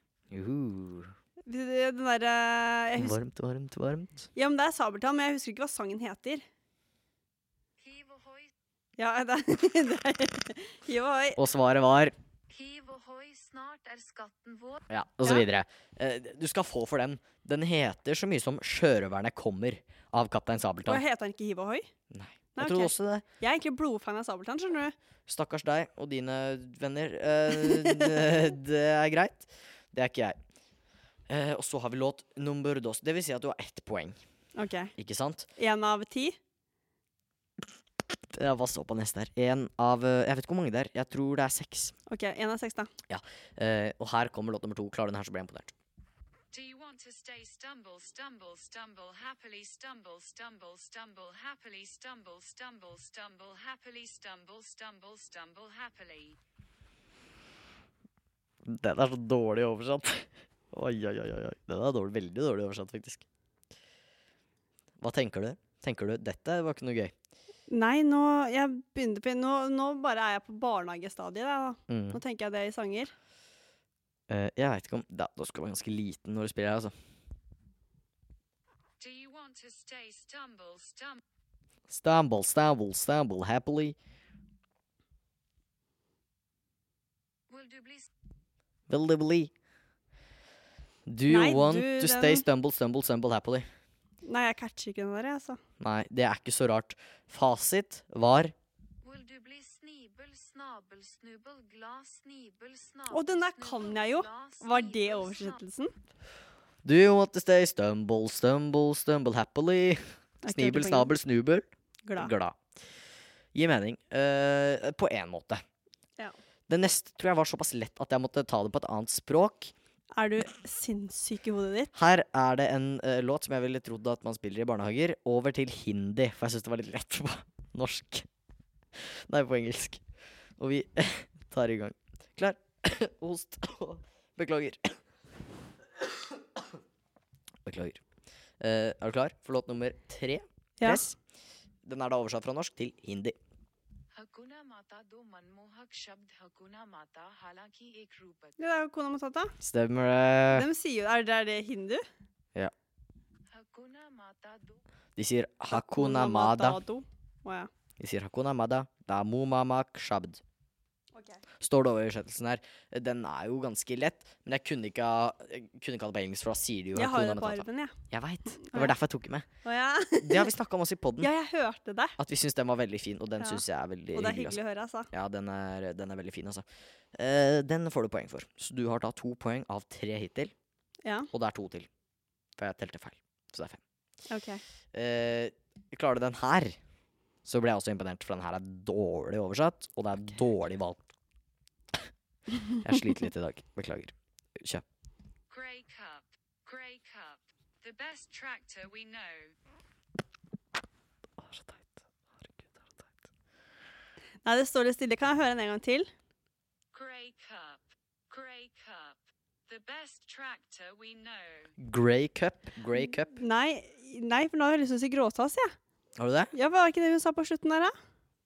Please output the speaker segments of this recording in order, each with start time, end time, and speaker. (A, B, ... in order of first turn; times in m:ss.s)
0:00.3-0:01.1 A
0:01.5-0:03.2 B
0:03.0-0:04.3 A
0:04.4-0:06.4 B
0:07.8-0:08.5 C
0:09.0-0:11.4 B
0:11.4-0:12.2 A
0:12.5-0:14.8 C
0:14.9-0:21.0 A
0:20.8-0:21.9 B
0:22.1-0:23.2 A
0:22.6-0:25.0 B
0:25.3-0:30.4 A
0:27.5-0:28.2 B
0:31.3-0:34.2 A
0:34.6-0:34.9 B
0:35.0-0:35.5 A
0:35.6-0:36.4 B
0:38.3-0:42.0 A
0:42.1-0:42.9 B
0:43.1-0:45.7 A
0:46.5-0:56.4 C
0:58.6-1:03.2 A
1:05.0-1:07.1 A
1:07.7-1:13.1 B
1:11.9-1:12.2 A
1:14.3-1:16.9 A
1:19.0-1:21.2 C
1:21.9-1:24.0 A
1:27.5-1:28.1 C
1:28.9-1:29.5 A
1:31.1-1:33.7 A
1:31.3-1:32.4 B
1:34.2-1:35.6 B
1:35.8-1:38.5 A
1:39.0-1:45.6 C
1:43.1-1:45.9 B
1:46.8-1:51.7 A
1:50.4-1:51.1 B
1:52.0-1:52.3 B
1:52.2-1:52.6 A
1:53.5-1:55.6 A
1:56.7-1:59.7 A
2:00.1-2:01.9 B
2:02.0-2:08.3 A
2:08.9-2:10.0 A
2:10.6-2:15.0 A
2:17.6-2:18.0 A
2:18.6-2:21.2 A
2:20.8-2:21.1 B
2:21.8-2:23.4 A
2:24.1-2:28.6 C
2:28.6-2:29.5 B
2:29.6-2:30.7 A
2:30.5-2:32.0 B
2:33.5-2:34.8 C
2:35.2-2:36.8 A
2:35.7-2:37.7 B
2:38.0-2:40.4 A
2:41.2-2:41.4 B
2:41.6-2:49.5 A
2:46.9-2:48.0 B
2:48.6-2:49.0 B
2:49.6-2:50.5 B
2:50.2-2:51.3 A
2:51.2-2:52.2 B
2:52.2-2:54.6 A
2:54.1-2:55.1 B
2:55.1-3:00.5 A
3:01.3-3:01.9 A
3:02.6-3:03.8 A
3:04.3-3:04.6 B
3:04.9-3:06.8 A
3:07.4-3:11.0 A
3:12.7-3:14.8 A
3:15.5-3:19.5 C
3:21.4-3:23.0 A
3:24.4-3:26.1 B
3:26.9-3:31.7 C
3:31.8-3:33.4 A
3:33.3-3:35.8 B
3:36.2-3:36.5 A
3:36.5-3:37.9 B